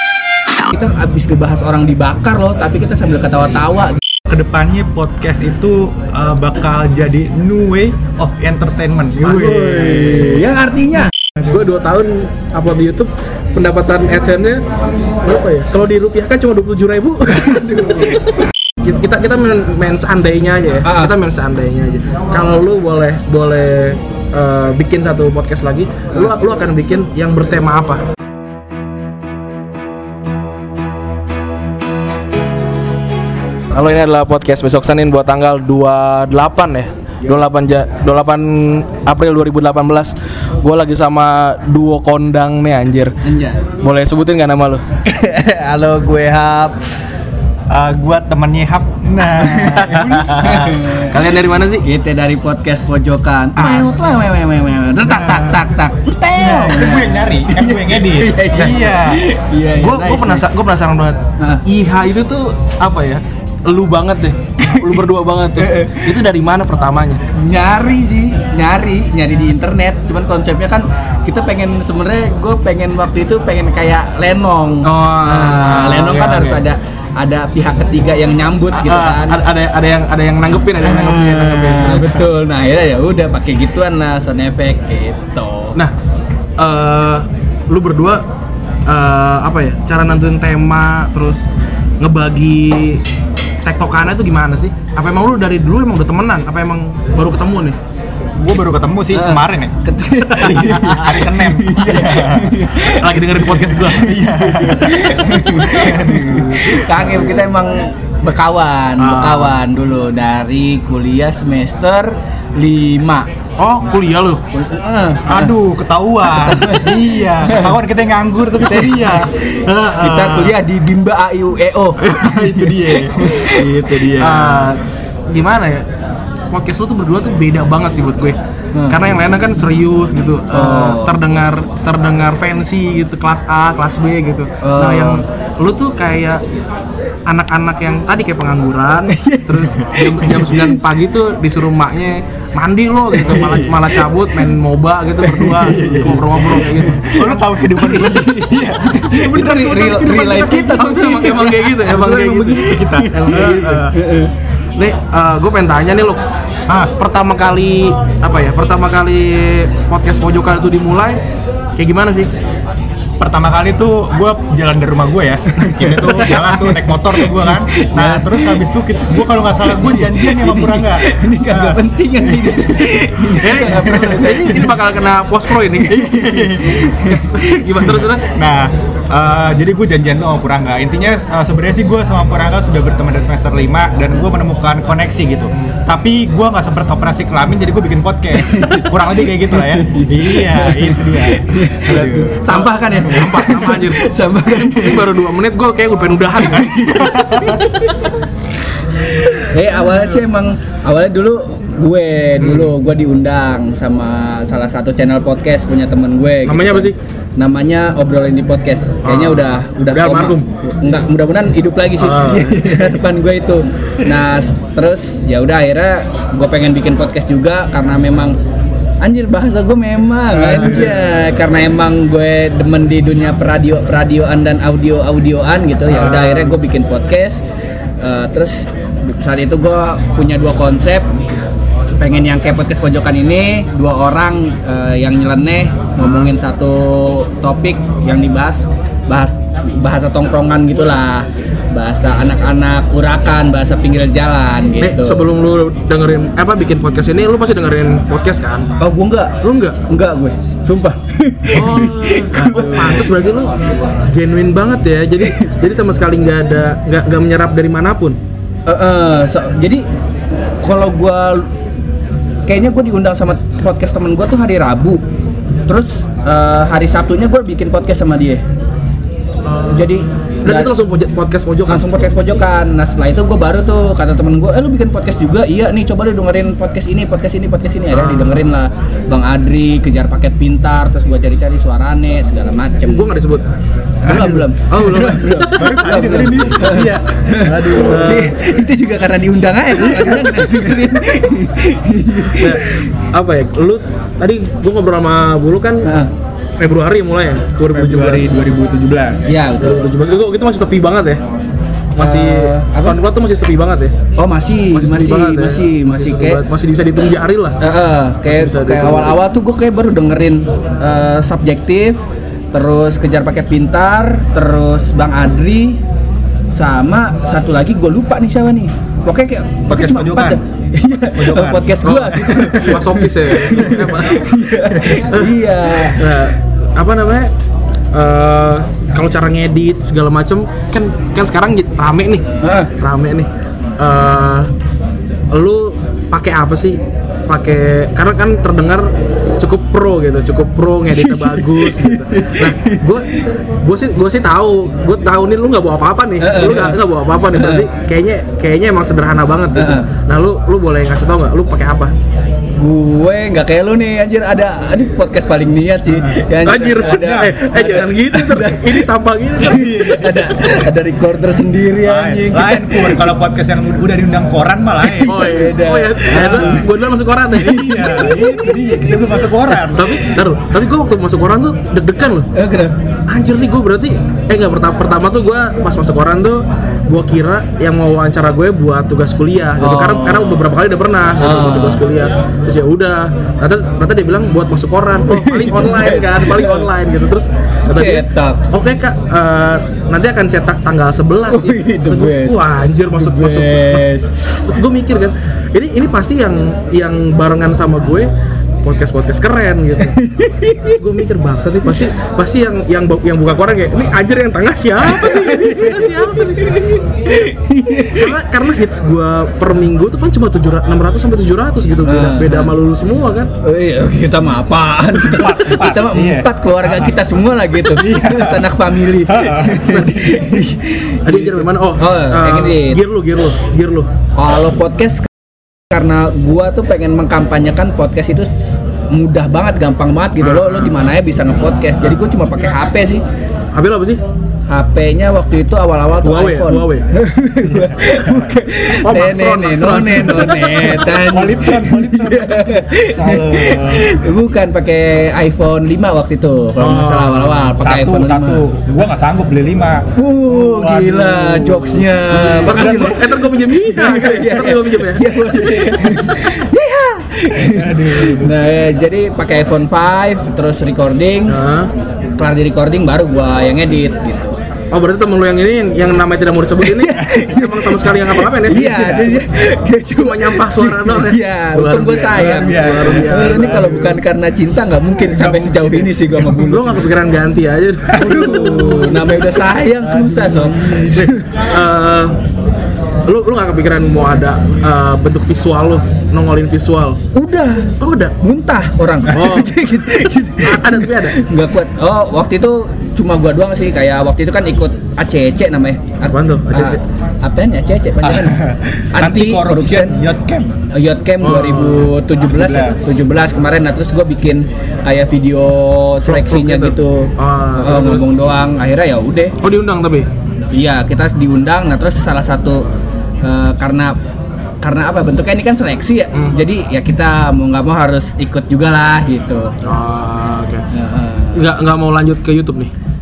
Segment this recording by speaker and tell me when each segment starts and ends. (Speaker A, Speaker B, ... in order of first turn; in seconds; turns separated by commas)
Speaker A: 0.7-4.0, Speaker B: 4.2-10.4, Speaker C: 9.2-10.2, Speaker A: 9.3-11.1, Speaker C: 11.4-14.6, Speaker C: 15.2-18.2, Speaker A: 17.4-18.2, Speaker C: 18.8-28.0, Speaker A: 20.8-21.1, Speaker C: 33.7-43.2, Speaker A: 43.2-43.6, Speaker C: 43.8-44.8, Speaker A: 45.0-46.9, Speaker B: 47.7-50.6, Speaker A: 49.4-51.2, Speaker C: 49.7-51.8, Speaker A: 51.8-60.5, Speaker B: 53.5-53.9, Speaker B: 55.0-55.6, Speaker B: 56.4-59.2, Speaker C: 59.8-67.2, Speaker A: 64.6-66.2, Speaker A: 67.3-79.4, Speaker C: 74.8-76.6, Speaker C: 78.7-82.1, Speaker A: 80.8-85.8, Speaker B: 81.8-82.2, Speaker C: 86.6-88.2, Speaker C: 88.9-91.5, Speaker C: 92.0-93.0, Speaker C: 93.6-97.8, Speaker B: 98.4-102.9, Speaker A: 99.1-113.3, Speaker C: 102.8-104.2, Speaker B: 103.6-107.2, Speaker C: 109.0-109.6, Speaker C: 113.6-114.4, Speaker A: 114.5-115.5, Speaker B: 115.3-120.5, Speaker A: 116.2-117.8, Speaker A: 118.6-119.4, Speaker A: 120.0-124.0, Speaker B: 122.0-124.7, Speaker C: 124.2-125.8, Speaker C: 126.5-136.4, Speaker A: 128.7-129.0, Speaker A: 130.5-131.1, Speaker A: 134.6-135.2, Speaker C: 137.3-147.4, Speaker A: 139.1-140.8, Speaker A: 143.1-144.5, Speaker A: 145.2-151.7, Speaker B: 145.6-154.0, Speaker C: 149.4-153.8, Speaker A: 152.7-154.3, Speaker C: 154.8-156.2, Speaker C: 156.9-161.2, Speaker C: 161.8-162.3, Speaker B: 163.2-174.5, Speaker A: 165.6-168.6, Speaker A: 169.2-174.8, Speaker C: 173.4-176.1, Speaker A: 175.8-178.0, Speaker B: 175.8-177.2, Speaker C: 177.4-178.2, Speaker B: 177.8-193.8, Speaker A: 188.3-195.1, Speaker C: 192.5-194.1, Speaker B: 194.5-195.0, Speaker C: 194.7-197.1, Speaker A: 196.5-198.1, Speaker B: 196.5-197.7, Speaker A: 198.9-218.4, Speaker C: 202.4-202.7, Speaker C: 206.4-207.0, Speaker C: 209.0-210.5, Speaker C: 212.0-212.6, Speaker B: 212.2-213.0, Speaker A: 219.0-227.4, Speaker B: 220.3-221.1, Speaker B: 225.9-226.5, Speaker A: 228.0-231.1, Speaker A: 232.0-245.3, Speaker C: 236.0-236.3, Speaker C: 244.8-248.7, Speaker A: 248.8-253.1, Speaker C: 249.4-249.8, Speaker C: 251.5-253.5, Speaker B: 252.3-253.1, Speaker C: 254.1-258.2, Speaker A: 258.7-259.8, Speaker A: 260.6-261.5, Speaker A: 262.5-265.0, Speaker A: 265.7-268.4, Speaker C: 269.5-269.9, Speaker A: 269.6-270.7, Speaker C: 270.4-271.9, Speaker A: 271.7-283.1, Speaker C: 277.9-278.4, Speaker C: 282.8-283.4, Speaker B: 284.0-284.5, Speaker A: 284.0-292.9, Speaker C: 284.7-285.9, Speaker B: 285.5-288.3, Speaker C: 287.8-288.3, Speaker B: 289.8-290.8, Speaker C: 292.4-295.9, Speaker A: 295.8-296.1, Speaker C: 296.6-298.4, Speaker B: 297.7-299.3, Speaker A: 299.3-299.8, Speaker C: 299.6-301.2, Speaker A: 301.9-303.0, Speaker C: 301.9-303.9, Speaker A: 304.2-306.4, Speaker C: 304.7-307.6, Speaker A: 307.6-315.8, Speaker C: 308.2-309.2, Speaker A: 316.5-326.1, Speaker B: 319.7-320.4, Speaker B: 321.1-322.8, Speaker C: 321.8-324.2, Speaker B: 323.5-324.0, Speaker B: 324.5-325.0, Speaker C: 325.1-325.4, Speaker C: 325.9-327.3, Speaker C: 327.9-332.2, Speaker A: 332.4-332.7, Speaker C: 332.8-333.3, Speaker C: 333.8-334.5, Speaker C: 335.3-351.9, Speaker A: 340.9-343.2, Speaker A: 346.2-347.7, Speaker A: 349.5-349.9, Speaker A: 352.6-363.1, Speaker B: 355.9-356.2, Speaker C: 356.4-359.8, Speaker B: 356.8-357.3, Speaker B: 359.4-360.7, Speaker B: 361.8-365.4, Speaker A: 364.9-366.6, Speaker C: 365.0-368.1, Speaker B: 366.1-366.7, Speaker B: 367.3-370.1, Speaker A: 367.7-369.2, Speaker C: 369.5-372.3, Speaker A: 372.3-372.8, Speaker C: 373.1-398.1, Speaker A: 379.6-380.4, Speaker A: 381.2-381.8, Speaker A: 385.1-386.7, Speaker A: 387.7-388.4, Speaker A: 391.3-394.2, Speaker C: 398.6-400.0, Speaker A: 399.8-400.8, Speaker C: 400.7-406.7, Speaker A: 404.8-408.2, Speaker C: 407.9-413.3, Speaker A: 411.8-412.5, Speaker A: 413.4-422.8, Speaker B: 414.9-420.5, Speaker C: 421.0-423.9, Speaker A: 424.1-433.0, Speaker C: 430.2-430.7, Speaker C: 433.5-434.0, Speaker A: 434.5-448.4, Speaker C: 436.0-436.9, Speaker B: 437.4-438.4, Speaker C: 438.7-440.6, Speaker B: 440.1-443.9, Speaker C: 446.6-447.5, Speaker B: 447.6-453.0, Speaker A: 449.9-461.4, Speaker C: 452.4-455.3, Speaker B: 457.4-458.4, Speaker C: 461.3-461.7, Speaker A: 462.2-464.4, Speaker C: 464.7-468.8, Speaker A: 466.6-476.8, Speaker B: 466.9-467.4, Speaker B: 468.5-469.2, Speaker C: 469.9-473.8, Speaker B: 472.1-474.0, Speaker B: 474.9-476.4, Speaker C: 476.3-478.9, Speaker B: 477.9-481.1, Speaker A: 478.0-481.4, Speaker C: 480.9-482.2, Speaker C: 483.1-487.0, Speaker A: 487.1-498.4, Speaker C: 487.8-488.1, Speaker C: 489.1-489.6, Speaker C: 490.4-491.2, Speaker C: 496.0-496.8, Speaker B: 498.0-500.5, Speaker A: 498.9-500.0, Speaker A: 500.7-509.4, Speaker C: 501.2-501.9, Speaker B: 502.2-502.8, Speaker C: 506.0-508.1, Speaker C: 509.4-510.1, Speaker A: 510.5-512.6, Speaker A: 513.2-514.0, Speaker A: 514.6-519.5, Speaker C: 519.6-520.6, Speaker A: 520.7-521.5, Speaker C: 521.3-522.7